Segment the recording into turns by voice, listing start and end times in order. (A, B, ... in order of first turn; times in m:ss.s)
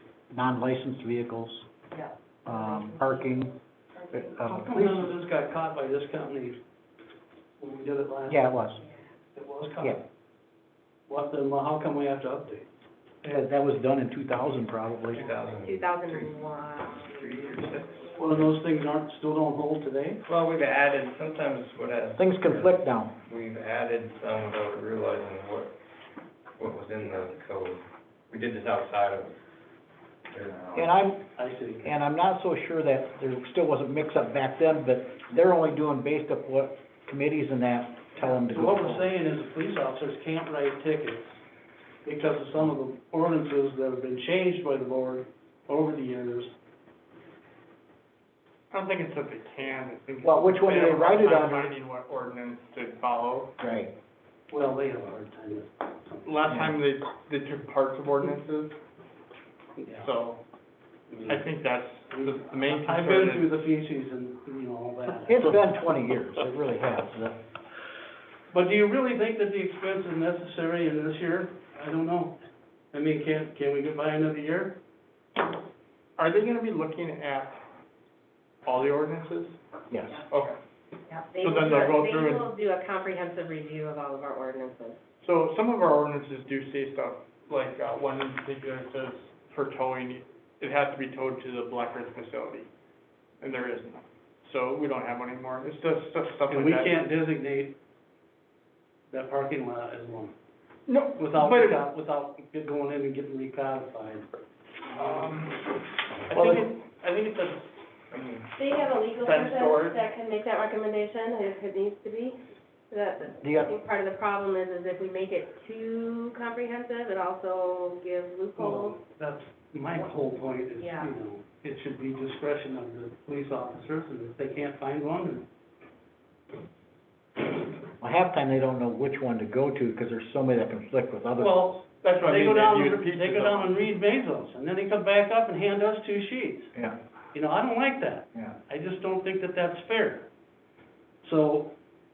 0:00.3-0:01.6 A
0:01.9-0:04.3 B
0:02.4-0:03.5 A
0:04.1-0:05.1 A
0:04.4-0:06.6 C
0:07.6-0:08.8 C
0:08.3-0:08.8 A
0:09.3-0:10.0 C
0:11.1-0:12.7 C
0:13.2-0:15.2 A
0:15.1-0:18.5 D
0:15.6-0:18.1 B
0:18.2-0:20.2 C
0:20.2-0:25.8 D
0:22.2-0:23.1 A
0:26.6-0:29.4 D
0:30.3-0:31.0 D
0:30.7-0:31.3 A
0:31.4-0:31.9 C
0:31.8-0:39.1 A
0:38.2-0:41.4 C
0:42.0-0:46.5 C
0:48.7-0:53.5 E
0:50.2-0:51.7 A
0:53.6-0:53.9 A
0:54.5-0:56.3 C
0:56.2-0:58.8 E
0:56.5-0:56.8 A
0:59.8-1:00.1 C
1:00.0-1:00.4 E
1:01.1-1:01.5 C
1:01.3-1:03.5 E
1:02.1-1:05.6 C
1:05.3-1:07.4 A
1:08.5-1:12.4 C
1:12.9-1:14.8 C
1:16.2-1:17.6 E
1:18.6-1:19.6 E
1:19.9-1:20.2 A
1:20.3-1:20.5 E
1:21.1-1:25.0 B
1:21.4-1:22.5 E
1:25.2-1:32.7 E
1:33.4-1:37.0 E
1:36.5-1:37.8 C
1:39.1-1:40.3 C
1:40.9-1:41.8 E
1:41.2-1:44.3 C
1:44.9-1:45.6 E
1:44.9-1:45.3 C
1:46.3-1:47.7 E
1:46.3-1:46.7 A
1:48.1-1:48.5 D
1:48.6-1:59.0 B
1:49.2-1:50.0 E
1:53.4-1:53.7 A
1:58.6-2:05.5 C
2:00.8-2:01.1 B
2:08.0-2:11.7 A
2:11.4-2:16.7 C
2:12.0-2:13.7 E
2:17.3-2:20.3 C
2:21.2-2:21.7 C